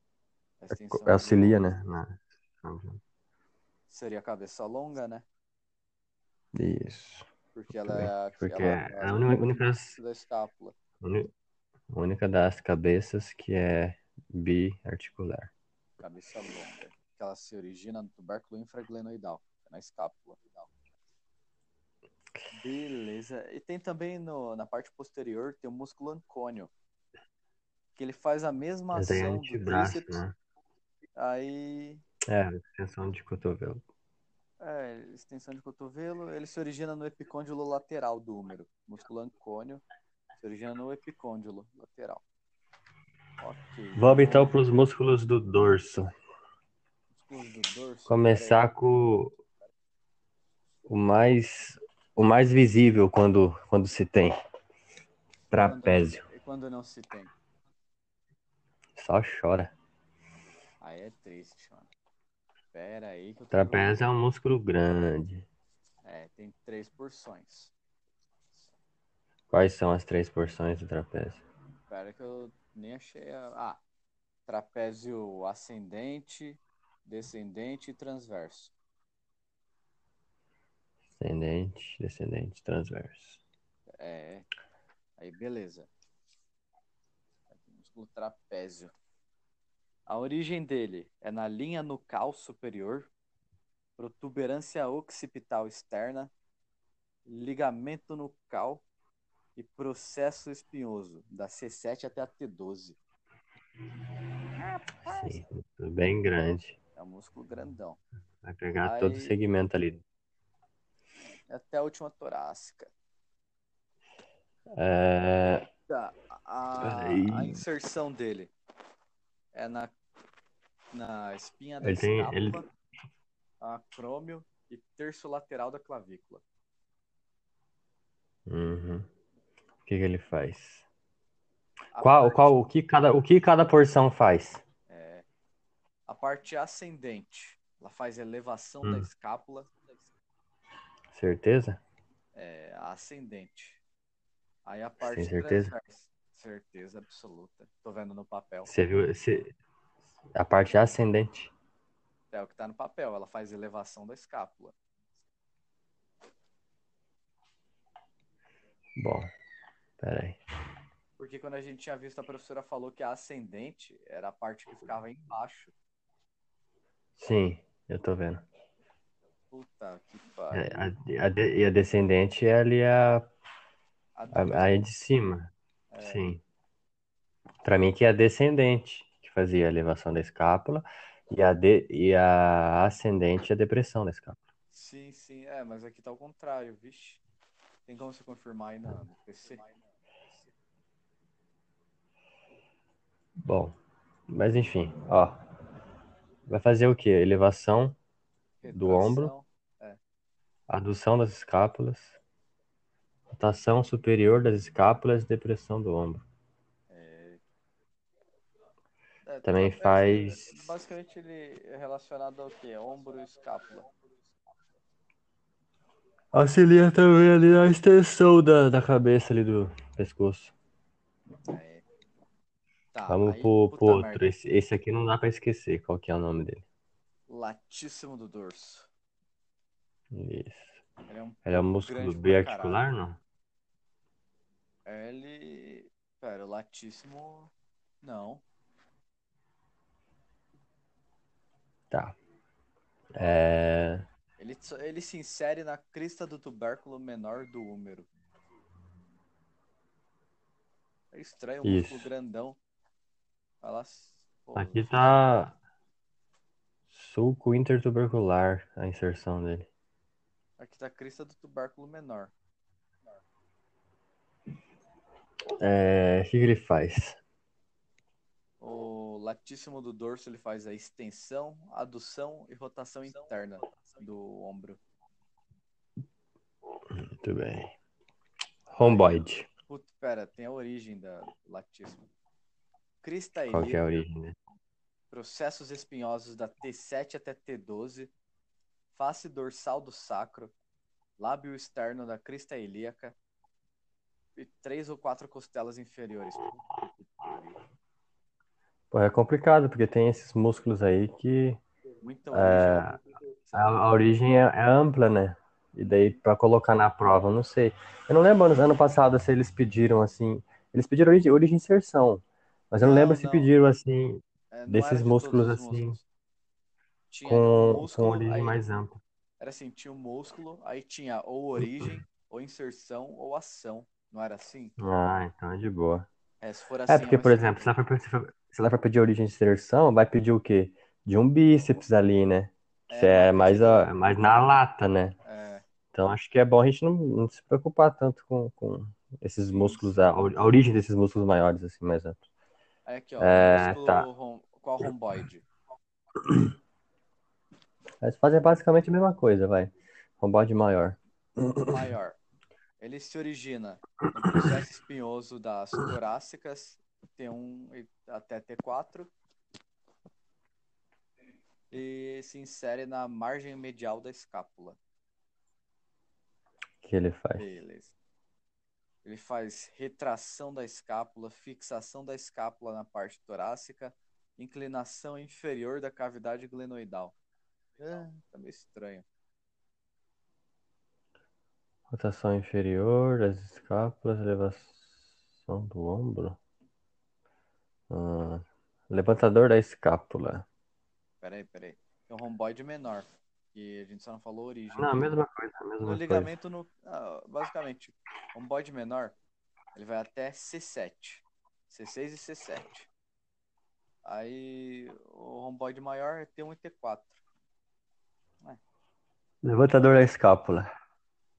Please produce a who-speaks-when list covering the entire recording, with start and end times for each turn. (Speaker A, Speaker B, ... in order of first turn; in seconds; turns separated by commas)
Speaker A: 0.6-1.8, Speaker B: 0.7-3.0, Speaker A: 3.9-5.2, Speaker B: 6.5-7.3, Speaker A: 7.5-10.8, Speaker B: 7.8-10.0, Speaker B: 11.0-11.3, Speaker B: 11.9-15.5, Speaker A: 16.0-20.7, Speaker A: 22.5-26.7, Speaker A: 27.9-30.2, Speaker B: 28.9-30.3, Speaker A: 31.2-32.0, Speaker B: 32.3-33.8, Speaker A: 34.6-39.8, Speaker A: 40.4-42.2, Speaker A: 43.4-44.6, Speaker B: 44.0-46.1, Speaker A: 47.1-48.7, Speaker B: 48.1-49.3, Speaker B: 50.9-54.4, Speaker B: 55.5-56.2, Speaker A: 55.5-57.3, Speaker B: 59.0-59.7, Speaker A: 60.8-61.9, Speaker A: 62.7-64.1, Speaker B: 63.5-65.5, Speaker A: 66.0-67.7, Speaker B: 69.5-71.4, Speaker A: 71.9-73.8, Speaker A: 74.5-78.7, Speaker B: 81.2-83.4, Speaker A: 84.0-84.5, Speaker A: 85.2-85.9, Speaker A: 87.5-88.9, Speaker A: 90.1-93.1, Speaker A: 94.0-96.3, Speaker A: 97.2-98.8, Speaker A: 99.5-103.0, Speaker A: 104.5-105.4, Speaker B: 105.0-106.8, Speaker A: 107.0-108.0, Speaker B: 108.4-110.0, Speaker A: 108.8-109.3, Speaker A: 111.5-112.9, Speaker B: 114.8-115.7, Speaker A: 115.9-118.5, Speaker B: 116.8-117.6, Speaker A: 119.5-119.9, Speaker A: 120.9-122.7, Speaker B: 121.8-122.6, Speaker A: 123.6-126.4, Speaker B: 128.5-129.1, Speaker B: 129.8-130.8, Speaker A: 131.9-132.6, Speaker B: 132.0-134.6, Speaker A: 134.9-135.2, Speaker A: 136.1-139.7, Speaker B: 141.1-141.8, Speaker A: 142.3-143.8, Speaker A: 144.7-148.7, Speaker B: 145.0-145.7, Speaker B: 148.7-149.5, Speaker B: 150.4-151.5, Speaker A: 152.3-154.8, Speaker B: 159.0-159.3, Speaker B: 160.0-160.4, Speaker A: 161.2-165.7, Speaker B: 167.2-168.4, Speaker A: 169.5-170.9, Speaker B: 170.5-173.3, Speaker A: 174.2-174.8, Speaker B: 174.3-176.4, Speaker A: 175.9-176.3, Speaker B: 177.6-184.4, Speaker A: 184.7-187.2, Speaker A: 187.8-189.7, Speaker B: 193.4-193.7, Speaker B: 194.3-195.4, Speaker B: 196.5-198.0, Speaker A: 198.6-200.0, Speaker B: 198.7-199.3, Speaker B: 200.7-202.2, Speaker B: 203.3-206.2, Speaker A: 206.9-207.4, Speaker A: 209.2-213.9, Speaker B: 209.4-210.6, Speaker B: 216.3-220.5, Speaker A: 221.5-221.8, Speaker A: 222.9-224.4, Speaker B: 223.1-226.6, Speaker A: 227.3-228.9, Speaker B: 230.1-230.7, Speaker A: 231.1-232.9, Speaker B: 231.4-233.2, Speaker A: 234.8-237.5, Speaker A: 238.0-238.4, Speaker B: 241.9-242.2, Speaker B: 243.2-244.0, Speaker A: 244.4-248.1, Speaker A: 251.1-252.6, Speaker B: 251.6-252.1, Speaker A: 253.6-255.2, Speaker B: 254.6-255.6, Speaker B: 256.9-259.7, Speaker A: 260.6-262.3, Speaker B: 265.6-267.2, Speaker A: 268.6-274.8, Speaker B: 276.9-277.7, Speaker B: 278.7-279.5, Speaker A: 278.8-282.0, Speaker A: 283.0-284.0, Speaker B: 283.5-284.3, Speaker A: 285.1-288.1, Speaker A: 288.9-290.5, Speaker A: 291.2-293.1, Speaker A: 294.4-297.6, Speaker B: 298.9-301.6, Speaker A: 302.0-303.8, Speaker B: 302.3-303.0, Speaker B: 303.5-316.0, Speaker A: 312.8-313.5, Speaker A: 314.5-316.0, Speaker A: 317.1-318.6, Speaker B: 317.3-318.9, Speaker A: 319.4-324.7, Speaker B: 324.8-326.1, Speaker A: 326.4-327.7, Speaker B: 326.9-335.1, Speaker A: 332.9-333.9, Speaker A: 335.2-335.6, Speaker B: 335.9-342.2, Speaker A: 339.4-340.1, Speaker A: 342.9-345.4, Speaker B: 343.2-344.1, Speaker B: 348.0-351.7, Speaker A: 351.6-352.2, Speaker A: 352.8-359.1, Speaker A: 361.7-364.8, Speaker B: 366.8-367.4, Speaker A: 367.3-367.9, Speaker A: 369.0-377.1, Speaker A: 377.8-379.0, Speaker B: 381.9-386.4, Speaker B: 387.9-390.4, Speaker A: 391.2-395.1, Speaker B: 394.7-396.3, Speaker A: 395.8-399.1, Speaker A: 399.7-402.9, Speaker A: 404.0-407.2, Speaker B: 409.4-410.6